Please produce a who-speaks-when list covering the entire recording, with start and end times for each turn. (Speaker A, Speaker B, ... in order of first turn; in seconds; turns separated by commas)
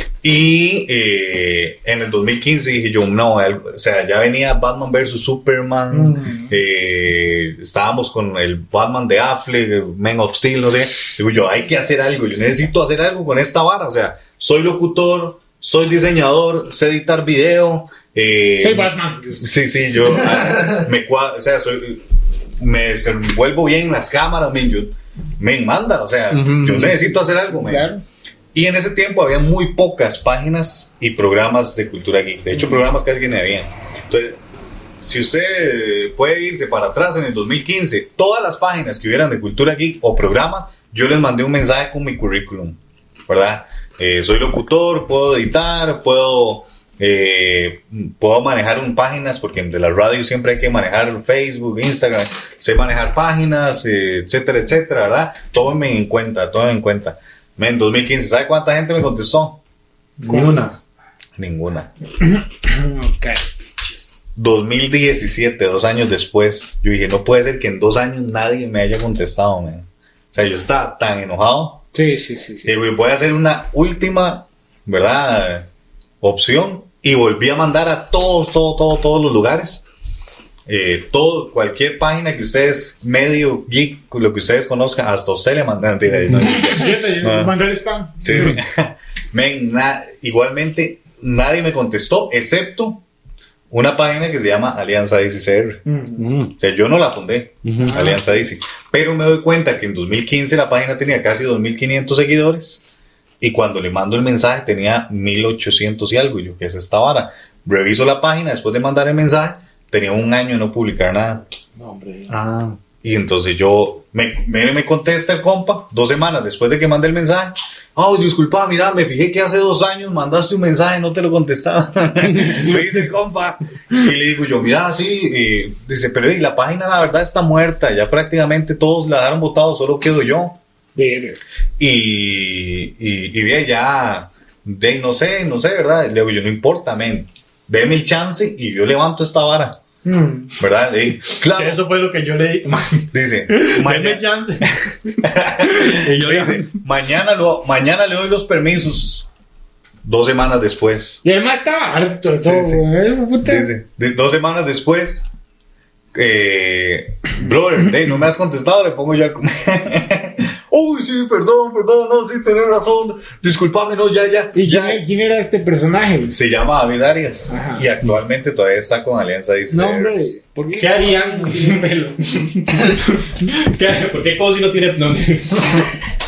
Speaker A: 0.2-22.0, Speaker B: 6.0-6.5, Speaker B: 18.6-19.4, Speaker A: 22.6-27.9, Speaker C: 26.3-27.0, Speaker B: 26.8-28.0, Speaker A: 28.5-34.4, Speaker A: 35.0-59.6, Speaker C: 60.2-60.8, Speaker B: 60.2-60.6, Speaker A: 61.4-61.9, Speaker B: 62.2-64.1, Speaker A: 64.3-71.8, Speaker B: 71.9-72.7, Speaker A: 72.6-75.7, Speaker A: 76.2-79.8, Speaker A: 80.7-87.5, Speaker B: 86.3-88.3, Speaker A: 88.2-93.0, Speaker C: 88.3-88.6, Speaker A: 93.7-95.8, Speaker B: 95.8-96.2, Speaker C: 96.2-96.5, Speaker A: 96.6-102.8, Speaker C: 97.6-98.1, Speaker B: 97.9-98.2, Speaker A: 103.4-111.4, Speaker B: 111.8-112.3, Speaker C: 112.3-112.8, Speaker A: 113.0-130.6, Speaker C: 122.3-122.7, Speaker B: 130.9-131.4, Speaker A: 131.8-139.8, Speaker B: 140.0-140.5, Speaker A: 140.6-141.8, Speaker C: 141.4-144.8, Speaker A: 143.1-144.7, Speaker A: 145.2-149.3, Speaker C: 145.3-146.8, Speaker A: 150.0-151.2, Speaker B: 151.2-153.7, Speaker A: 152.4-152.8, Speaker A: 153.4-155.3, Speaker A: 156.1-165.0, Speaker B: 164.5-166.3, Speaker A: 166.3-170.1, Speaker B: 167.5-167.9, Speaker B: 169.7-172.7, Speaker C: 170.7-172.2, Speaker C: 172.8-175.9